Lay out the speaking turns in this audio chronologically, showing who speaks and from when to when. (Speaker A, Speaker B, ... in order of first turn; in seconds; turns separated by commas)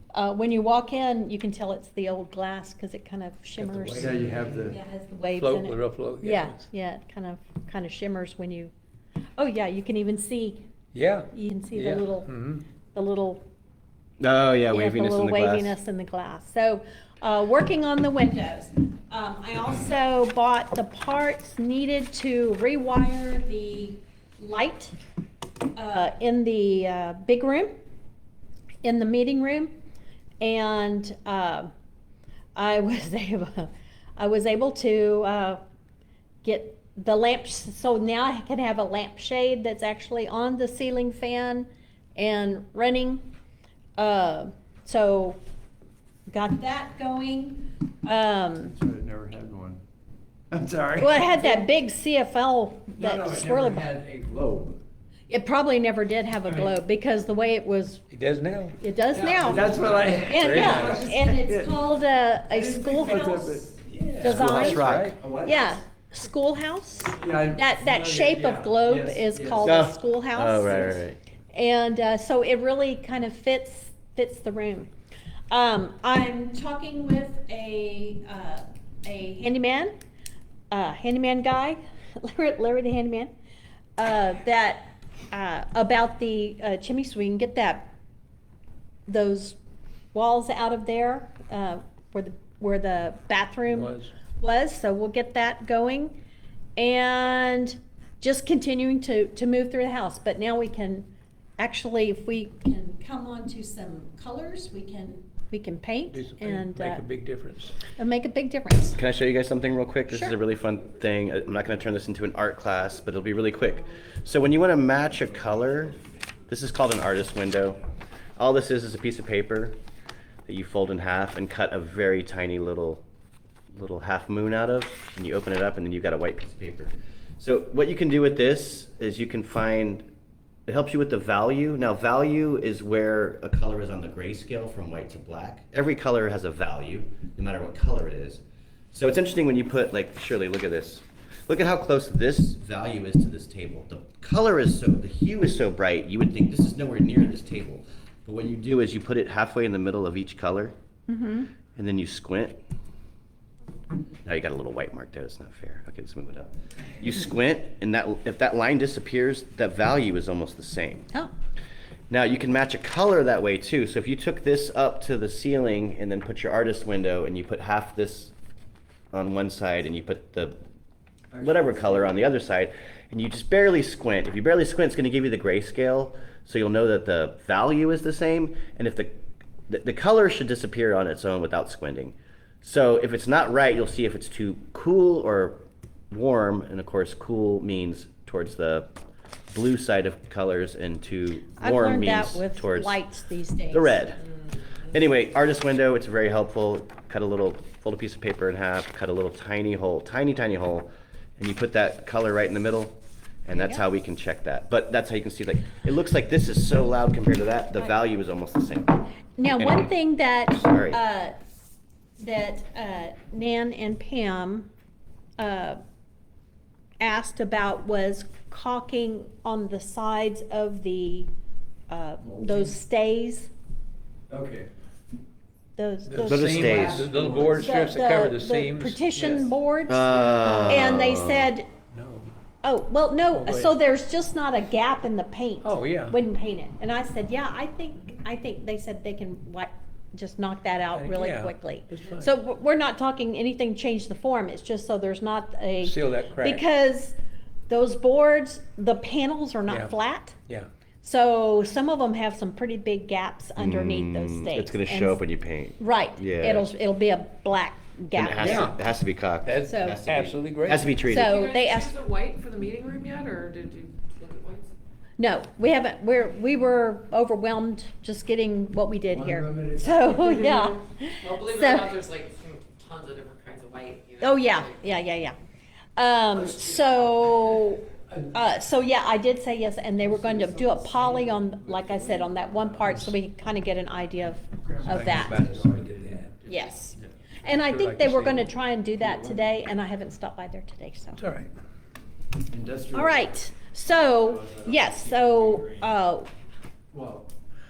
Speaker A: 0.1-8.7, Speaker B: 3.6-4.7, Speaker C: 4.0-4.8, Speaker B: 5.4-6.6, Speaker A: 9.4-10.6, Speaker B: 10.9-12.6, Speaker A: 11.3-12.3, Speaker A: 12.9-13.4, Speaker D: 14.2-15.8, Speaker A: 14.7-24.9, Speaker A: 25.8-27.7, Speaker A: 28.8-29.7, Speaker A: 30.4-31.7, Speaker A: 32.6-35.6, Speaker A: 36.4-43.3, Speaker A: 44.0-45.4, Speaker A: 46.3-48.8, Speaker C: 48.8-49.8, Speaker C: 50.5-51.6, Speaker A: 51.0-53.9, Speaker C: 53.0-54.8, Speaker A: 55.3-58.0, Speaker B: 58.1-61.1, Speaker A: 58.8-64.9, Speaker C: 59.3-61.7, Speaker C: 62.5-63.8, Speaker B: 63.9-65.2, Speaker D: 64.2-65.2, Speaker C: 64.4-65.8, Speaker A: 65.4-71.0, Speaker C: 67.2-69.8, Speaker D: 69.6-71.2, Speaker A: 71.5-74.9, Speaker A: 75.5-79.9, Speaker A: 80.7-83.3, Speaker A: 84.0-87.9, Speaker A: 89.1-89.6, Speaker A: 90.1-96.2, Speaker B: 93.7-94.1, Speaker A: 96.8-101.1, Speaker A: 101.6-107.0, Speaker B: 106.1-107.8, Speaker A: 107.9-109.0, Speaker D: 109.0-117.8, Speaker A: 110.1-110.4, Speaker D: 118.4-119.8, Speaker D: 120.5-123.0, Speaker D: 123.7-130.1, Speaker D: 130.7-138.4, Speaker D: 138.9-150.8, Speaker A: 151.1-151.5, Speaker D: 151.8-152.6, Speaker D: 154.2-161.1, Speaker D: 162.1-168.3, Speaker D: 169.1-170.6, Speaker C: 171.3-172.2, Speaker D: 171.4-188.9, Speaker D: 189.5-193.0, Speaker A: 191.6-194.0, Speaker D: 193.7-194.2, Speaker D: 194.9-209.0, Speaker A: 203.6-203.8, Speaker A: 209.4-211.3, Speaker D: 209.6-209.9, Speaker D: 210.5-211.0, Speaker A: 212.2-214.7, Speaker A: 215.4-215.8, Speaker A: 217.0-221.3, Speaker A: 221.9-223.5, Speaker C: 222.2-222.7, Speaker C: 224.3-224.7, Speaker A: 225.8-231.7, Speaker B: 226.1-229.5, Speaker D: 226.3-227.1, Speaker C: 226.6-227.6, Speaker D: 229.9-231.5, Speaker B: 230.1-230.8, Speaker B: 231.9-232.3, Speaker A: 232.6-247.2, Speaker B: 233.3-233.8, Speaker B: 235.6-236.2, Speaker B: 240.9-242.3, Speaker B: 245.8-246.7, Speaker A: 247.7-250.4, Speaker B: 249.7-249.9, Speaker A: 251.0-255.2, Speaker D: 253.6-256.7, Speaker A: 255.8-258.8, Speaker D: 258.1-261.4, Speaker B: 258.4-258.8, Speaker B: 259.4-261.0, Speaker A: 259.6-260.1, Speaker A: 261.1-261.9, Speaker E: 261.1-264.7, Speaker A: 265.2-272.0, Speaker C: 269.1-270.4, Speaker E: 270.3-274.8, Speaker A: 274.2-275.4, Speaker A: 276.0-285.5, Speaker E: 276.6-277.6, Speaker C: 280.0-283.1, Speaker C: 284.6-286.3, Speaker B: 284.8-286.3, Speaker A: 286.5-291.2, Speaker B: 287.5-288.5, Speaker C: 289.0-289.5, Speaker B: 291.2-291.5, Speaker C: 292.5-293.3, Speaker A: 292.9-296.3, Speaker C: 294.0-295.9, Speaker C: 296.9-297.3